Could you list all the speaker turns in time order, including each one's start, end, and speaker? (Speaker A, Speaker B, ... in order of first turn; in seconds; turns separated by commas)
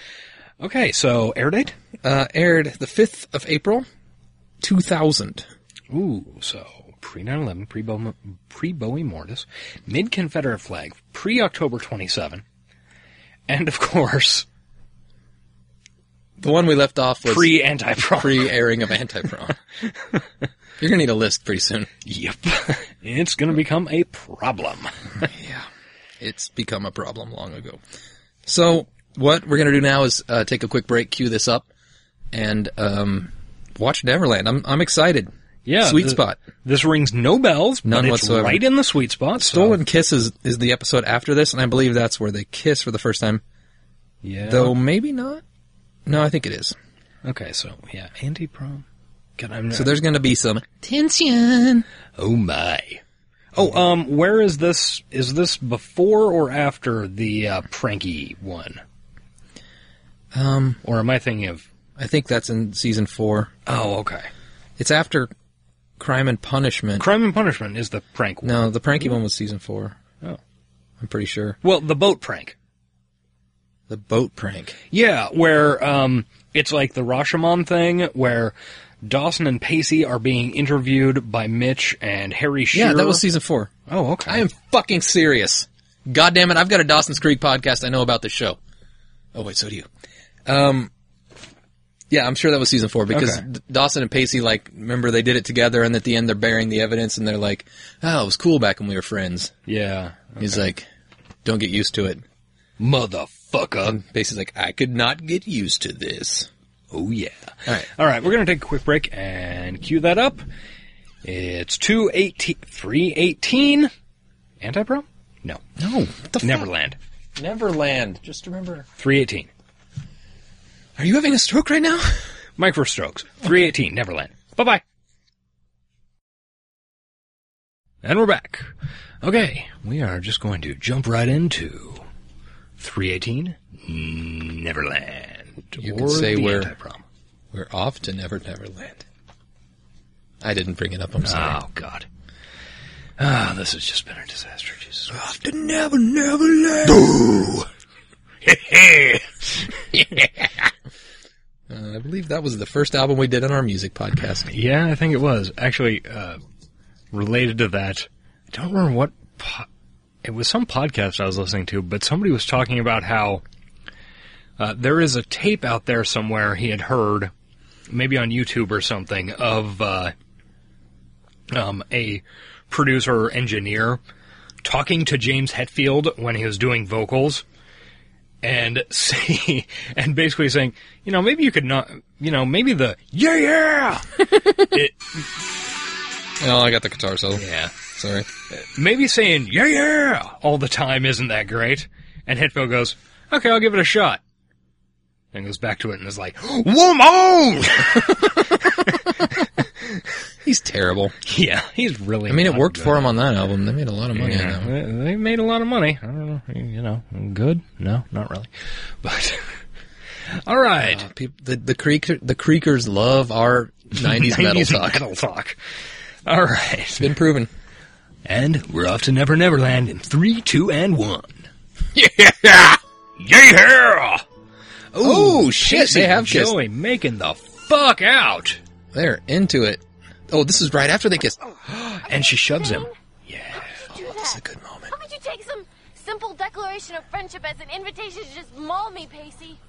Speaker A: 0.6-1.7, Speaker B: 2.0-3.9, Speaker B: 4.6-5.5, Speaker A: 5.9-12.4, Speaker A: 13.5-14.4, Speaker B: 16.4-19.6, Speaker A: 17.2-18.5, Speaker B: 20.8-21.9, Speaker A: 22.0-25.2, Speaker B: 25.2-25.7, Speaker B: 26.2-27.8, Speaker B: 28.4-31.7, Speaker B: 32.3-36.4, Speaker A: 35.6-39.8, Speaker B: 37.8-38.6, Speaker B: 39.4-43.4, Speaker A: 44.2-44.8, Speaker B: 44.5-45.4, Speaker B: 46.0-46.8, Speaker A: 47.2-48.8, Speaker A: 49.4-50.0, Speaker B: 49.7-51.9, Speaker A: 52.2-53.0, Speaker A: 53.5-58.8, Speaker B: 60.3-60.8, Speaker A: 60.8-61.6, Speaker B: 62.0-63.5, Speaker A: 63.6-64.3, Speaker B: 64.8-65.3, Speaker B: 66.0-67.1, Speaker A: 67.0-69.1, Speaker B: 68.4-70.0, Speaker B: 71.0-71.6, Speaker A: 71.6-72.5, Speaker B: 73.9-74.8, Speaker A: 74.9-83.2, Speaker B: 82.7-83.7, Speaker A: 83.9-84.4, Speaker B: 84.2-88.6, Speaker B: 89.3-89.9, Speaker B: 90.5-90.9, Speaker B: 92.1-99.5, Speaker A: 93.1-93.4, Speaker A: 99.7-100.6, Speaker B: 100.4-100.9, Speaker B: 101.4-102.2, Speaker A: 102.8-104.0, Speaker B: 103.8-106.5, Speaker A: 106.9-110.4, Speaker A: 111.2-113.9, Speaker A: 114.6-117.0, Speaker B: 115.8-116.7, Speaker B: 117.4-118.9, Speaker A: 119.0-119.5, Speaker B: 121.0-122.3, Speaker A: 122.6-124.8, Speaker A: 128.0-128.7, Speaker A: 129.2-132.1, Speaker A: 132.8-137.0, Speaker B: 135.8-136.7, Speaker B: 137.5-139.1, Speaker B: 140.4-141.6, Speaker A: 141.2-142.1, Speaker A: 143.2-145.1, Speaker B: 145.1-147.4, Speaker A: 146.9-147.7, Speaker A: 148.4-149.6, Speaker B: 149.9-150.7, Speaker B: 151.7-154.5, Speaker A: 154.5-156.4, Speaker A: 157.1-159.7, Speaker A: 160.2-163.4, Speaker A: 164.6-167.3, Speaker A: 167.9-170.1, Speaker A: 171.5-174.0, Speaker A: 174.6-177.4, Speaker A: 178.4-185.2, Speaker B: 186.4-188.3, Speaker A: 187.4-187.8, Speaker A: 188.5-194.2, Speaker A: 195.3-199.5, Speaker B: 200.4-201.1, Speaker A: 201.2-203.1, Speaker B: 202.3-204.7, Speaker A: 204.1-209.6, Speaker A: 210.3-211.0, Speaker B: 210.8-215.0, Speaker A: 213.9-215.6, Speaker A: 216.2-217.1, Speaker B: 217.0-217.5, Speaker A: 218.2-224.2, Speaker A: 224.9-228.6, Speaker B: 225.0-226.6, Speaker B: 228.9-231.4, Speaker A: 231.7-233.9, Speaker C: 232.1-232.9, Speaker C: 233.6-239.6, Speaker B: 233.9-234.9